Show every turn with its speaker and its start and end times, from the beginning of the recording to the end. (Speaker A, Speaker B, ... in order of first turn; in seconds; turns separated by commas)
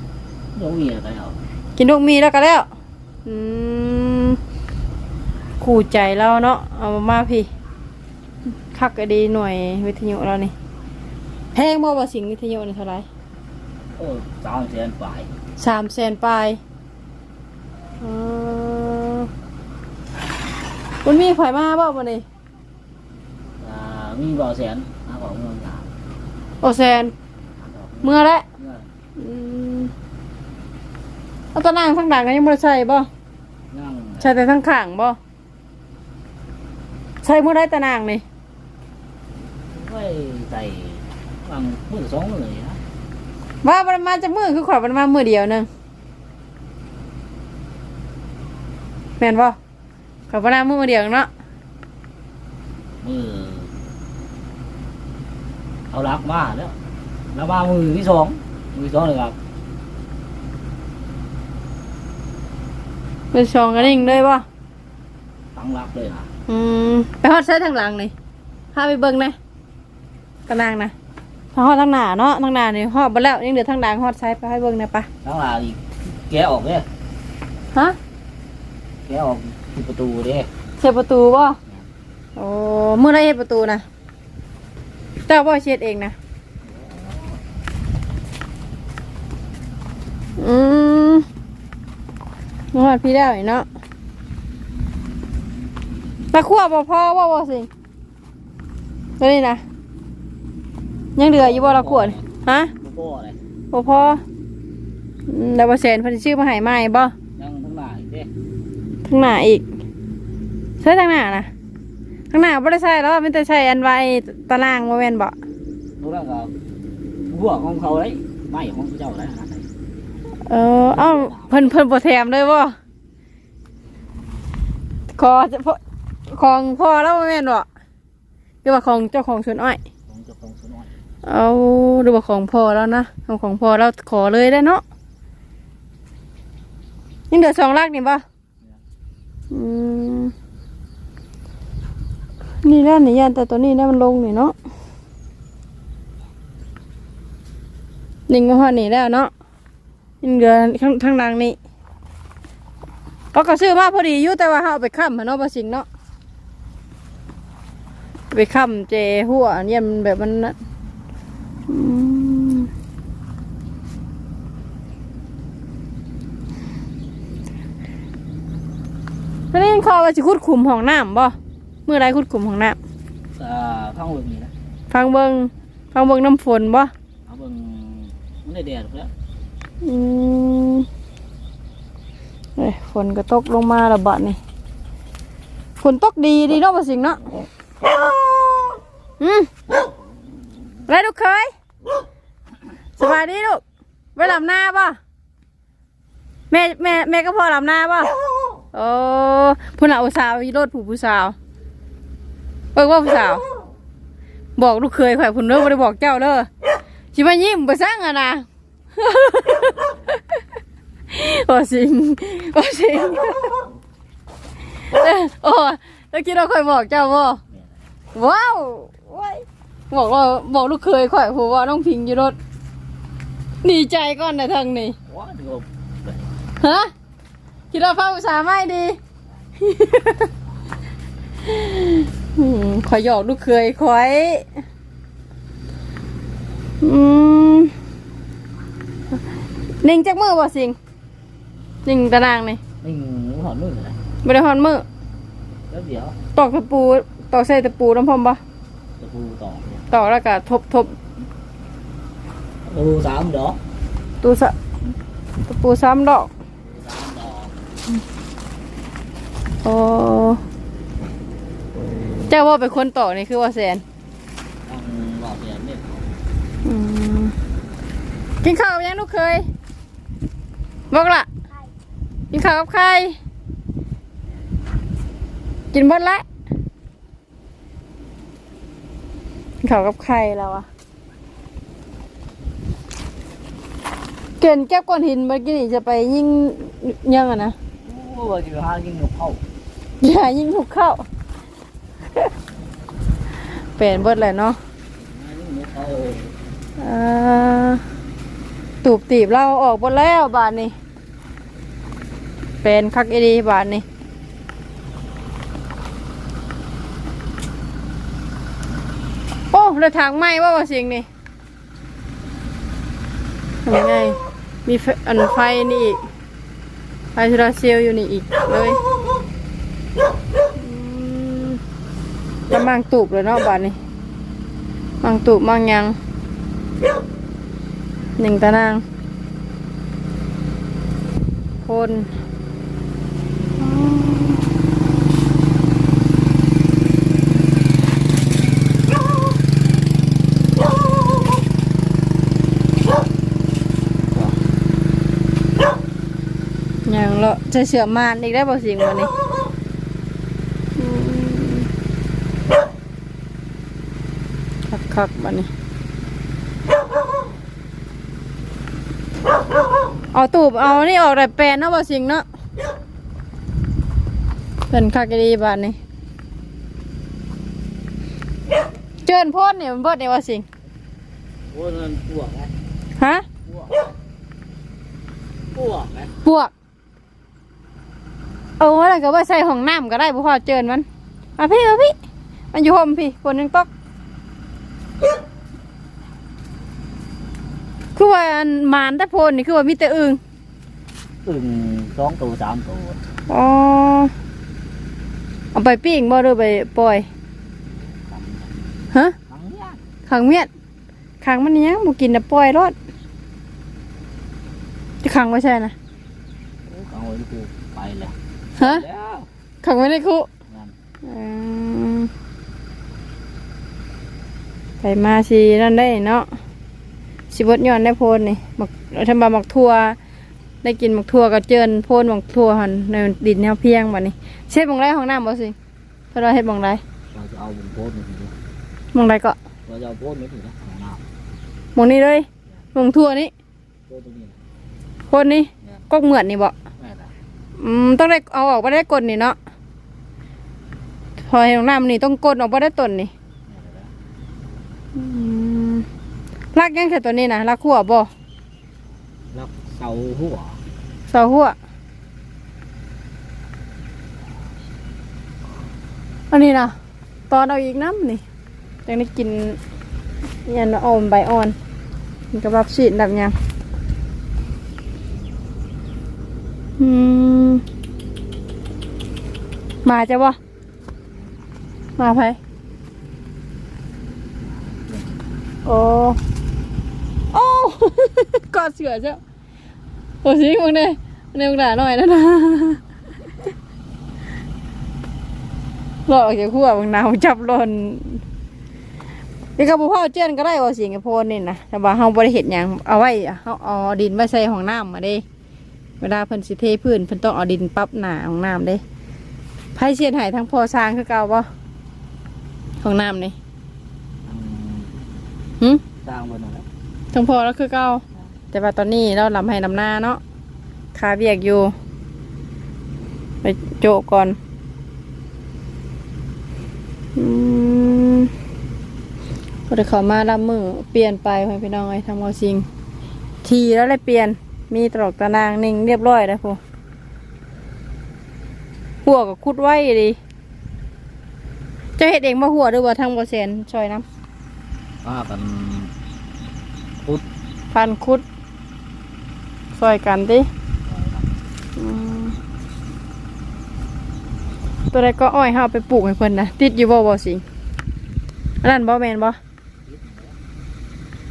Speaker A: 0.6-1.4, Speaker B: 1.8-2.7, Speaker B: 3.3-4.4, Speaker B: 5.6-7.5, Speaker B: 8.7-10.5, Speaker B: 11.5-13.1, Speaker A: 14.0-15.3, Speaker B: 15.6-16.6, Speaker B: 18.0-19.3, Speaker B: 21.0-22.2, Speaker A: 23.6-25.9, Speaker B: 26.6-27.1, Speaker A: 27.5-28.9, Speaker B: 28.0-28.4, Speaker B: 29.2-29.9, Speaker B: 31.6-33.1, Speaker A: 33.7-34.3, Speaker B: 34.2-35.2, Speaker B: 37.2-38.2, Speaker A: 39.7-42.8, Speaker B: 43.6-45.7, Speaker B: 49.2-49.6, Speaker B: 50.3-51.3, Speaker A: 53.0-53.7, Speaker A: 55.9-56.8, Speaker A: 57.3-59.4, Speaker B: 63.3-64.5, Speaker A: 63.8-64.1, Speaker A: 65.5-66.3, Speaker B: 66.5-68.1, Speaker B: 68.7-69.4, Speaker B: 70.5-70.9, Speaker B: 71.5-75.1, Speaker A: 75.2-76.9, Speaker A: 79.1-80.5, Speaker B: 80.8-81.6, Speaker B: 82.4-83.8, Speaker B: 85.3-86.2, Speaker A: 86.6-87.4, Speaker B: 90.4-91.3, Speaker B: 92.7-93.7, Speaker B: 96.3-97.7, Speaker B: 99.2-99.6, Speaker B: 101.2-102.7, Speaker A: 101.4-102.3, Speaker A: 102.8-103.4, Speaker B: 103.7-104.2, Speaker B: 105.3-107.1, Speaker A: 107.4-108.3, Speaker B: 109.1-109.7, Speaker B: 110.8-111.5, Speaker B: 112.3-115.3, Speaker A: 116.0-116.5, Speaker A: 117.3-119.7, Speaker B: 120.5-122.8, Speaker A: 120.9-121.8, Speaker B: 125.2-125.8, Speaker B: 126.3-127.7, Speaker B: 128.6-129.8, Speaker A: 130.1-130.9, Speaker B: 131.2-134.8, Speaker B: 137.3-138.2, Speaker B: 139.5-140.3, Speaker B: 142.6-144.6, Speaker B: 148.3-149.3, Speaker B: 150.2-151.6, Speaker B: 153.3-155.9, Speaker B: 158.3-160.6, Speaker B: 161.7-162.7, Speaker B: 169.5-172.8, Speaker A: 173.4-174.5, Speaker B: 174.9-176.9, Speaker A: 177.3-179.1, Speaker B: 179.8-180.9, Speaker B: 182.6-184.4, Speaker B: 185.8-187.2, Speaker B: 189.2-189.5, Speaker B: 190.9-191.5, Speaker B: 193.0-193.6, Speaker B: 194.2-195.0, Speaker B: 196.5-198.1, Speaker B: 198.7-201.4, Speaker B: 202.8-203.4, Speaker B: 204.6-206.5, Speaker B: 207.1-208.4, Speaker B: 209.0-209.9, Speaker B: 211.1-213.6, Speaker B: 214.9-217.4, Speaker A: 217.5-217.9, Speaker B: 218.2-222.4, Speaker B: 223.6-225.0, Speaker A: 225.1-226.3, Speaker B: 226.6-226.9, Speaker B: 227.7-229.0, Speaker B: 229.6-230.3, Speaker B: 231.4-234.5, Speaker B: 236.8-237.7, Speaker B: 239.8-240.8, Speaker B: 241.9-242.6, Speaker A: 242.8-244.0, Speaker B: 244.2-244.8, Speaker A: 245.7-246.2, Speaker B: 246.4-248.4, Speaker A: 249.0-249.8, Speaker B: 249.9-250.9, Speaker A: 252.6-253.6, Speaker B: 254.2-254.6, Speaker B: 255.5-256.3, Speaker A: 256.6-257.6, Speaker B: 259.6-260.4, Speaker B: 262.3-263.8, Speaker A: 264.7-266.2, Speaker B: 266.6-267.3, Speaker B: 268.4-269.5, Speaker B: 270.9-271.3, Speaker B: 272.3-273.2, Speaker B: 275.7-276.2, Speaker B: 279.6-280.7, Speaker B: 284.4-287.6, Speaker A: 287.8-289.4, Speaker B: 290.0-291.1, Speaker B: 293.8-294.6, Speaker A: 295.0-296.4, Speaker B: 296.8-297.8, Speaker B: 298.8-300.7, Speaker B: 302.6-303.9, Speaker B: 309.5-311.1, Speaker B: 313.7-316.0, Speaker B: 317.1-318.8, Speaker B: 320.6-321.6, Speaker B: 322.5-323.8, Speaker B: 325.0-326.0, Speaker B: 328.2-328.8, Speaker B: 331.6-332.1, Speaker B: 333.6-334.5, Speaker B: 346.9-349.1, Speaker B: 350.8-351.7, Speaker B: 354.7-355.5, Speaker B: 360.1-362.2, Speaker B: 364.7-365.8, Speaker B: 369.0-370.4, Speaker A: 371.5-372.5, Speaker B: 373.0-373.3, Speaker A: 373.5-373.9, Speaker A: 375.5-376.1, Speaker B: 376.2-376.5, Speaker B: 378.6-380.9, Speaker B: 381.4-381.9, Speaker B: 382.5-383.7, Speaker B: 388.0-390.2, Speaker A: 391.2-393.0, Speaker B: 393.3-394.1, Speaker B: 395.6-397.1, Speaker A: 397.8-398.7, Speaker A: 399.3-399.8, Speaker B: 400.1-400.5, Speaker B: 401.2-402.8, Speaker B: 405.0-405.8, Speaker A: 406.7-409.3, Speaker B: 408.6-408.9, Speaker B: 409.6-410.3, Speaker A: 410.5-410.7, Speaker B: 411.0-412.1, Speaker B: 414.8-416.3, Speaker B: 417.3-420.0, Speaker B: 420.6-425.6, Speaker B: 426.1-426.8, Speaker A: 427.1-428.3, Speaker B: 428.9-429.4, Speaker A: 429.7-431.0, Speaker B: 431.8-433.3, Speaker A: 433.9-434.4, Speaker B: 435.1-436.5, Speaker A: 436.8-437.1, Speaker B: 437.6-439.4, Speaker B: 441.3-443.1, Speaker A: 443.5-443.9, Speaker B: 444.9-445.9, Speaker B: 446.6-448.1, Speaker A: 449.3-450.6, Speaker B: 451.1-451.6, Speaker B: 456.3-456.7, Speaker B: 457.3-458.2, Speaker B: 458.9-459.6, Speaker B: 460.5-461.6, Speaker B: 462.3-463.4, Speaker B: 466.8-467.6, Speaker B: 469.9-470.4, Speaker B: 472.0-472.4, Speaker A: 474.8-475.3, Speaker B: 475.6-476.2, Speaker B: 477.3-479.2, Speaker B: 480.2-482.8, Speaker B: 486.1-488.2, Speaker B: 489.6-495.2, Speaker B: 496.0-498.8, Speaker B: 499.8-501.5, Speaker B: 502.8-503.4, Speaker A: 504.2-505.0, Speaker A: 506.0-506.7, Speaker B: 507.1-510.2, Speaker B: 510.9-511.7, Speaker B: 513.4-514.4, Speaker B: 517.2-518.3, Speaker B: 519.7-522.7, Speaker B: 523.4-526.6, Speaker B: 529.0-530.2, Speaker B: 532.0-534.0, Speaker A: 535.0-535.9, Speaker B: 537.7-538.2, Speaker B: 539.7-540.5, Speaker A: 540.9-541.4, Speaker B: 541.8-542.4, Speaker B: 544.9-547.4, Speaker B: 548.6-549.4, Speaker A: 549.9-550.4